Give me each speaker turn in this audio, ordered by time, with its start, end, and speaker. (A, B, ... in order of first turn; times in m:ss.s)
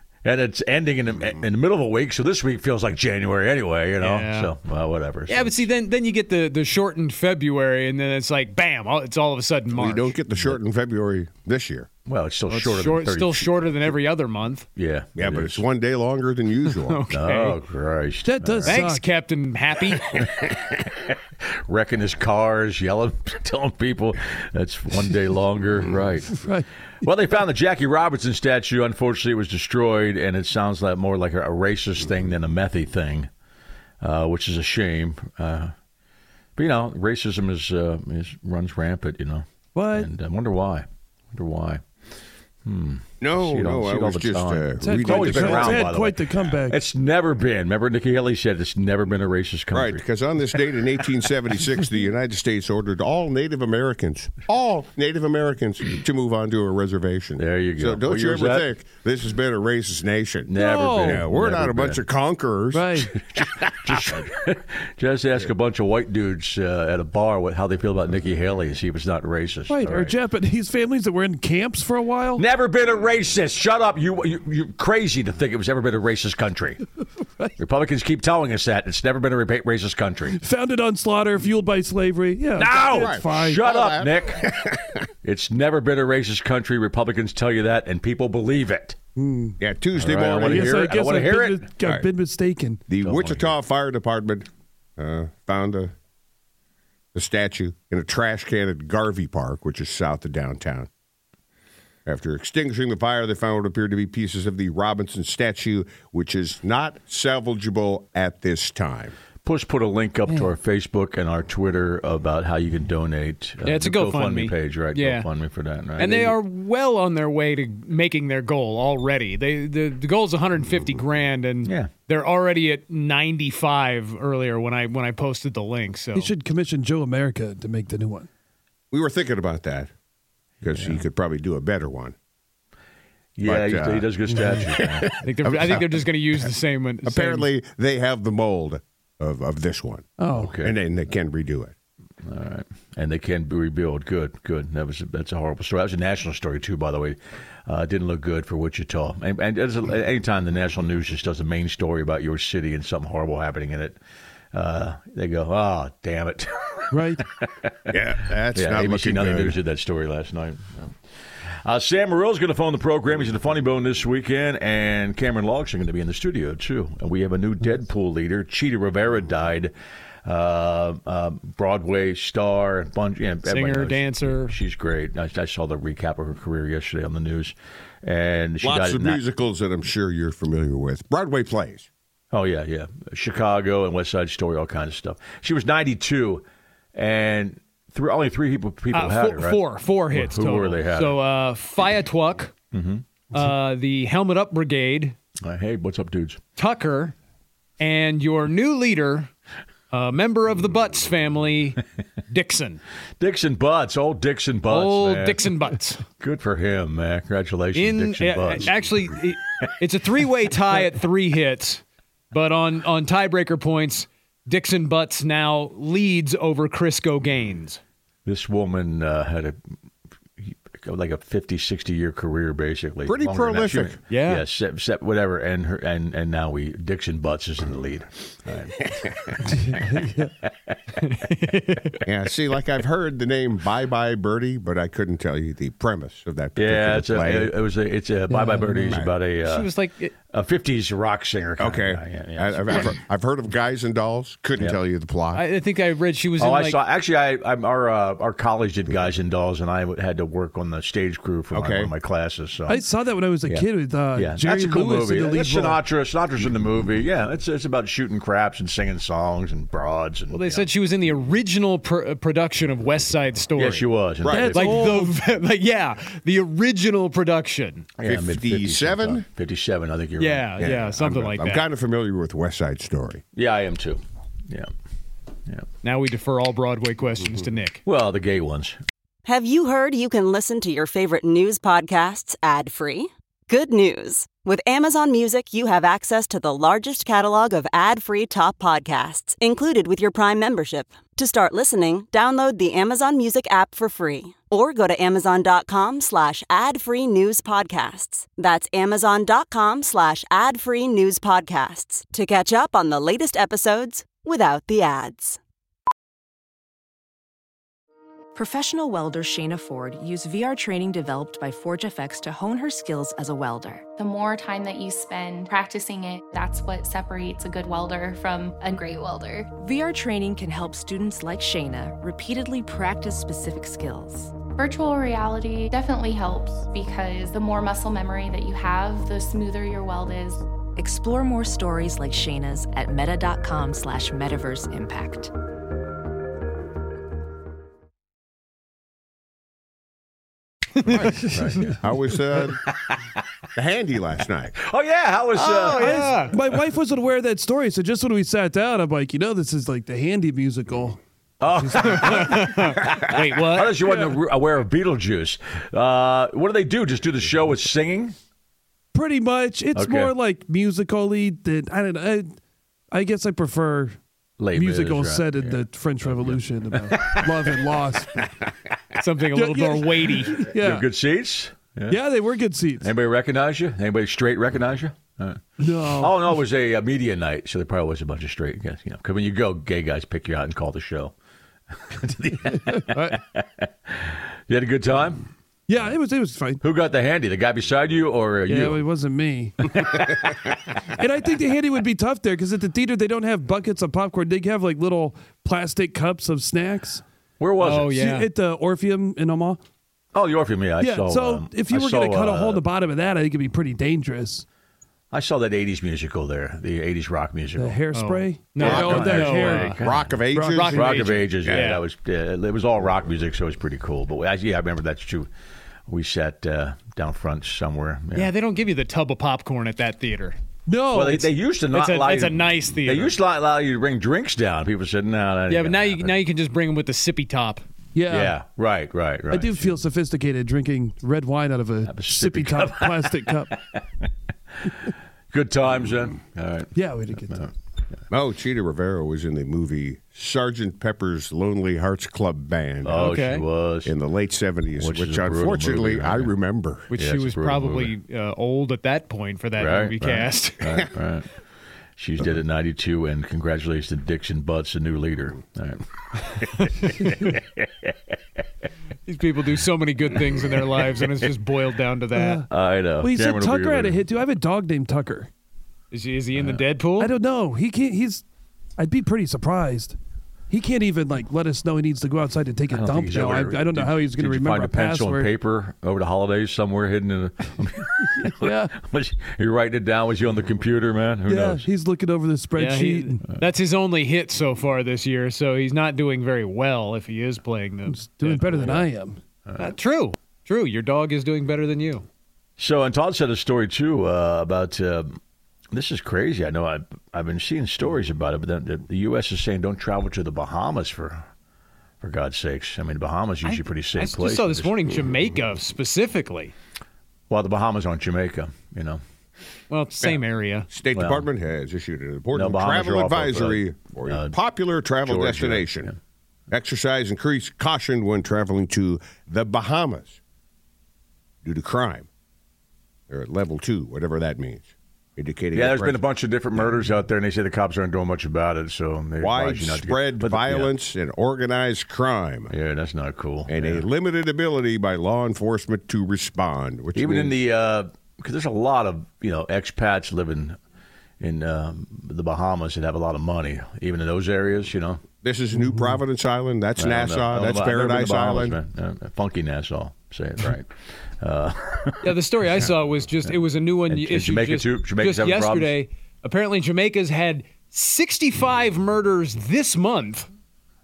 0:00.2-0:05.7 A
0:04.0-0:04.5 B
0:05.3-0:10.2 B
0:09.7-0:11.9 C
0:12.0-0:13.6 A
0:12.5-0:14.7 B
0:14.8-0:15.6 A
0:15.2-0:17.0 C
0:16.7-0:17.6 B
0:17.1-0:18.8 A
0:18.2-0:19.0 D
0:18.6-0:20.2 B
0:20.2-0:33.3 A
0:26.3-0:26.6 D
0:34.0-0:35.7 A
0:36.6-0:41.8 A
0:39.7-0:40.1 D
0:42.6-0:50.0 A
0:43.2-0:45.8 C
0:44.8-0:46.8 D
0:49.7-1:00.5 C
0:57.4-0:58.7 A
1:00.5-1:02.1 A
1:00.5-1:01.2 D
1:01.0-1:04.0 C
1:02.7-1:03.1 D
1:03.1-1:10.2 A
1:09.7-1:12.4 D
1:12.4-1:16.8 A
1:17.6-1:20.4 A
1:20.3-1:23.6 D
1:22.6-1:24.7 A
1:22.9-1:25.0 C
1:25.2-1:29.0 A
1:29.2-1:29.6 D
1:29.6-1:30.8 C
1:30.0-1:31.7 A
1:30.3-1:32.8 D
1:32.9-1:35.9 C
1:33.0-1:33.6 A
1:37.1-1:40.9 C
1:42.0-1:49.2 C
1:49.4-1:56.4 A
1:53.6-1:55.3 B
1:56.0-2:06.3 B
2:01.6-2:01.9 A
2:06.1-2:08.3 D
2:08.9-2:09.9 C
2:10.6-2:12.1 C
2:10.6-2:11.0 A
2:13.4-2:15.1 A
2:13.4-2:15.8 C
2:15.2-2:17.5 B
2:17.0-2:20.1 C
2:20.2-2:20.5 D
2:20.3-2:20.8 A
2:20.6-2:21.7 C
2:22.2-2:34.0 A
2:34.5-2:37.9 A
2:36.9-2:37.2 D
2:37.9-2:39.6 C
2:38.5-2:40.9 A
2:41.6-2:49.7 A
2:50.2-2:59.2 A
2:53.4-2:54.6 B
2:58.6-3:01.9 C
3:02.3-3:09.6 A
3:08.9-3:12.5 B
3:10.1-3:11.2 A
3:12.7-3:13.1 A
3:13.3-3:15.2 B
3:15.4-3:16.4 A
3:16.6-3:17.2 B
3:17.8-3:19.3 B
3:19.9-3:22.8 B
3:23.2-3:25.5 A
3:24.7-3:26.0 B
3:26.2-3:28.7 A
3:27.7-3:37.8 B
3:38.2-3:39.6 A
3:40.4-3:50.7 A
3:43.0-3:44.0 C
3:44.1-3:44.4 B
3:49.6-3:50.2 D
3:51.0-3:52.0 B
3:52.0-3:57.6 C
3:56.6-4:03.0 A
3:58.4-3:58.7 D
3:58.7-3:59.1 C
3:59.4-4:00.1 B
4:01.6-4:05.4 C
4:05.3-4:06.8 B
4:06.4-4:12.8 A
4:11.5-4:11.9 C
4:12.7-4:15.8 D
4:13.4-4:20.7 A
4:20.3-4:23.9 B
4:23.5-4:24.7 A
4:24.2-4:24.5 C
4:24.3-4:25.1 D
4:24.5-4:27.8 B
4:28.0-4:30.5 A
4:28.0-4:29.2 C
4:30.2-4:31.6 B
4:30.6-4:33.2 C
4:33.3-4:34.7 A
4:35.8-4:37.8 B
4:37.8-4:38.8 A
4:39.2-5:05.4 E
5:08.3-5:13.8 F
5:14.0-5:19.5 G
5:19.6-5:24.4 F
5:24.5-5:30.4 G
5:30.8-5:35.3 F
5:40.9-5:41.1 B
5:40.9-5:41.3 D
5:41.0-5:41.8 A
5:41.8-5:42.6 C
5:42.4-5:43.0 A
5:43.5-5:44.5 C
5:44.6-5:46.6 A
5:45.3-5:46.3 B
5:45.7-5:52.2 D
5:51.4-5:58.1 A
5:51.8-5:54.1 B
5:58.9-6:02.3 D
5:59.7-6:00.1 A
6:02.9-6:04.0 D
6:04.4-6:07.7 A
6:04.5-6:08.2 D
6:09.0-6:10.5 B
6:09.3-6:10.9 D
6:10.6-6:12.0 A
6:11.9-6:12.9 D
6:12.8-6:21.1 A
6:15.6-6:16.2 D
6:21.7-6:25.2 A
6:25.7-6:26.6 D
6:26.6-6:28.8 A
6:28.5-6:30.1 D
6:29.8-6:30.3 A
6:30.8-6:37.0 D
6:37.4-6:38.0 A
6:37.6-6:38.3 B
6:37.8-6:39.6 D
6:40.1-6:42.6 A
6:40.8-6:44.4 D
6:45.1-6:47.8 A
6:47.5-6:51.1 D
6:47.9-6:49.8 B
6:48.6-6:50.1 A
6:48.6-6:50.8 C
6:50.5-6:51.8 B
6:50.7-6:55.3 A
6:51.4-6:51.8 C
6:55.9-6:58.3 A
6:58.1-7:00.4 B
7:00.7-7:01.3 D
7:00.9-7:06.2 A
7:01.7-7:03.2 B
7:05.5-7:07.6 B
7:07.9-7:08.4 D
7:08.1-7:09.8 A
7:09.3-7:13.5 D
7:11.8-7:14.1 A
7:14.6-7:17.5 A
7:16.7-7:17.4 D
7:18.1-7:23.1 C
7:22.8-7:23.9 A
7:23.0-7:23.4 B
7:23.8-7:26.9 C
7:24.7-7:26.3 A
7:26.9-7:30.8 B
7:26.9-7:27.9 A
7:29.6-7:31.3 A
7:32.0-7:37.9 A
7:39.0-7:42.4 B
7:42.1-7:42.4 D
7:42.5-7:44.0 A
7:43.0-7:45.3 D
7:45.9-7:47.1 B
7:47.0-7:48.2 D
7:48.8-7:50.0 D
7:50.5-7:55.3 D
7:52.7-8:01.6 A
7:58.4-7:58.7 D
8:01.2-8:03.2 D
8:02.6-8:08.8 B
8:07.9-8:09.2 D
8:09.4-8:09.7 A
8:09.6-8:12.1 B
8:12.6-8:15.2 A
8:15.7-8:21.2 A
8:22.0-8:24.9 A
8:23.4-8:26.5 B
8:27.3-8:29.0 A
8:29.7-8:30.7 B
8:30.0-8:35.9 C
8:30.9-8:31.3 A
8:32.3-8:34.4 A
8:35.0-8:36.0 A
8:36.5-8:40.2 C
8:41.4-8:42.1 C
8:43.1-8:46.0 C
8:45.5-8:50.7 A
8:49.2-8:52.5 C
8:52.5-8:53.8 A
8:53.5-8:57.4 C
8:56.9-9:00.6 A
9:01.2-9:05.0 A
9:05.2-9:08.6 C
9:06.8-9:12.6 A
9:12.0-9:20.3 B
9:13.9-9:15.7 A